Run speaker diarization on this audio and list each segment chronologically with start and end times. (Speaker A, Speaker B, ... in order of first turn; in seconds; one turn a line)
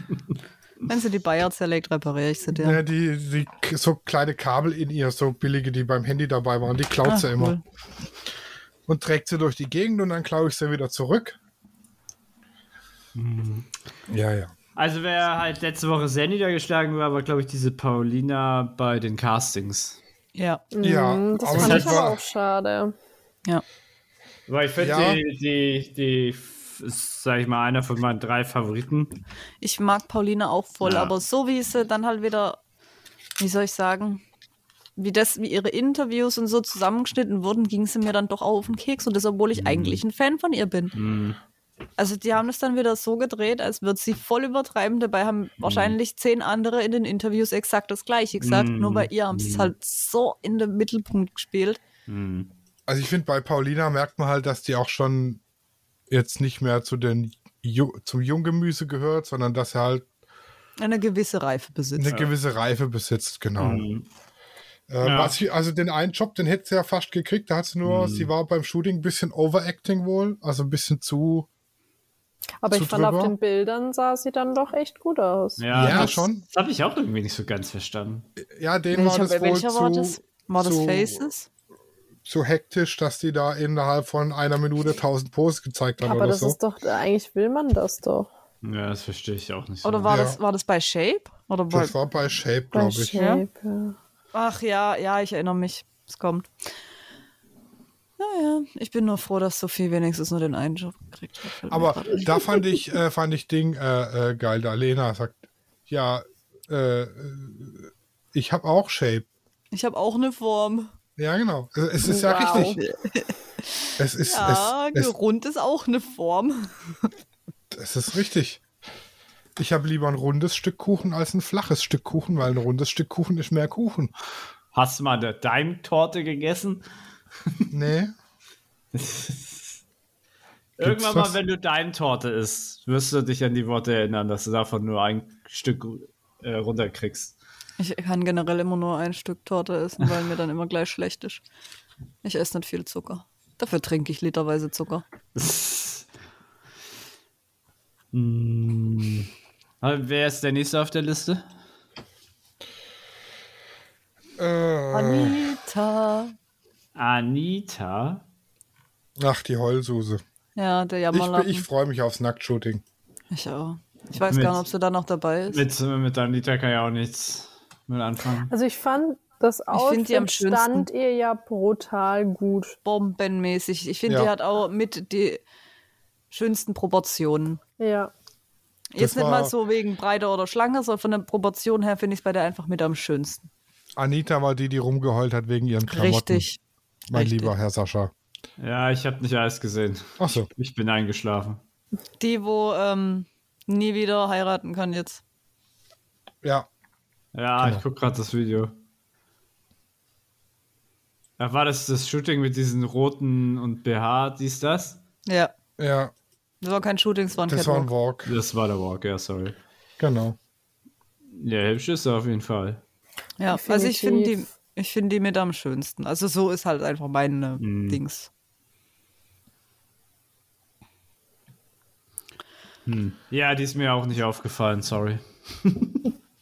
Speaker A: 0.9-2.8
Speaker B: 2.5-7.6
Speaker A: 7.0-7.6
Speaker B: 8.9-11.4
Speaker C: 13.2-13.7
Speaker B: 14.1-14.5
Speaker C: 14.8-20.0
Speaker A: 20.4-20.6
Speaker D: 20.7-22.9
Speaker B: 20.8-22.2
Speaker C: 21.5-22.0
Speaker C: 24.5-29.2
Speaker B: 24.8-25.2
Speaker A: 29.6-32.6
Speaker C: 30.8-31.1
Speaker A: 33.4-34.2
Speaker A: 35.0-40.9
Speaker C: 39.5-40.0
Speaker C: 40.9-41.4
Speaker A: 42.0-51.8
Speaker C: 45.6-46.0
Speaker C: 48.4-49.7
Speaker C: 52.1-52.5
Speaker B: 52.9-55.4
Speaker B: 56.1-60.0
Speaker A: 60.8-62.2
Speaker B: 62.0-63.9
Speaker C: 63.6-64.1
Speaker B: 64.9-71.5
Speaker C: 65.0-65.3
Speaker C: 67.8-68.3
Speaker D: 72.6-76.1
Speaker B: 72.7-73.3
Speaker C: 75.6-78.3
Speaker B: 75.7-76.5
Speaker B: 78.4-81.3
Speaker A: 78.9-81.5
Speaker B: 82.2-86.6
Speaker D: 86.0-88.3
Speaker C: 88.6-90.2
Speaker A: 89.8-91.9
Speaker B: 90.1-90.4
Speaker B: 91.7-93.2
Speaker D: 92.7-94.0
Speaker A: 93.2-93.4
Speaker A: 94.3-96.5
Speaker A: 98.2-102.5
Speaker B: 101.7-109.3
Speaker A: 109.7-110.9
Speaker B: 111.2-112.8
Speaker D: 112.0-112.8
Speaker A: 112.4-117.0
Speaker B: 114.0-115.1
Speaker B: 117.7-118.6
Speaker B: 119.6-124.1
Speaker C: 124.7-126.8
Speaker B: 127.7-128.1
Speaker C: 128.9-129.8
Speaker C: 130.8-137.3
Speaker B: 130.8-131.4
Speaker A: 137.8-141.4
Speaker A: 142.2-145.0
Speaker C: 145.3-146.1
Speaker C: 148.1-149.3
Speaker C: 149.8-151.4
Speaker B: 154.4-155.4
Speaker A: 154.9-156.3
Speaker C: 156.9-158.2
Speaker B: 159.2-160.2
Speaker A: 160.6-161.7
Speaker B: 161.1-162.8
Speaker A: 163.3-165.6
Speaker C: 164.3-164.6
Speaker C: 165.5-168.5
Speaker D: 168.5-172.8
Speaker A: 169.7-170.9
Speaker A: 172.8-175.4
Speaker A: 176.3-177.6
Speaker D: 177.8-178.1
Speaker A: 178.9-183.5
Speaker B: 179.0-179.5
Speaker B: 184.0-186.4
Speaker A: 185.9-186.6
Speaker B: 187.1-188.1
Speaker A: 187.1-187.5
Speaker C: 188.6-191.6
Speaker B: 190.2-190.5
Speaker A: 192.2-195.2
Speaker C: 197.3-198.8
Speaker C: 201.4-205.0
Speaker A: 205.3-205.5
Speaker B: 205.8-206.1
Speaker A: 206.6-207.9
Speaker B: 207.5-208.3
Speaker C: 208.3-209.6
Speaker B: 210.0-210.4
Speaker C: 211.3-212.8
Speaker A: 213.4-218.3
Speaker D: 213.5-214.4
Speaker C: 217.6-218.0
Speaker C: 222.9-226.1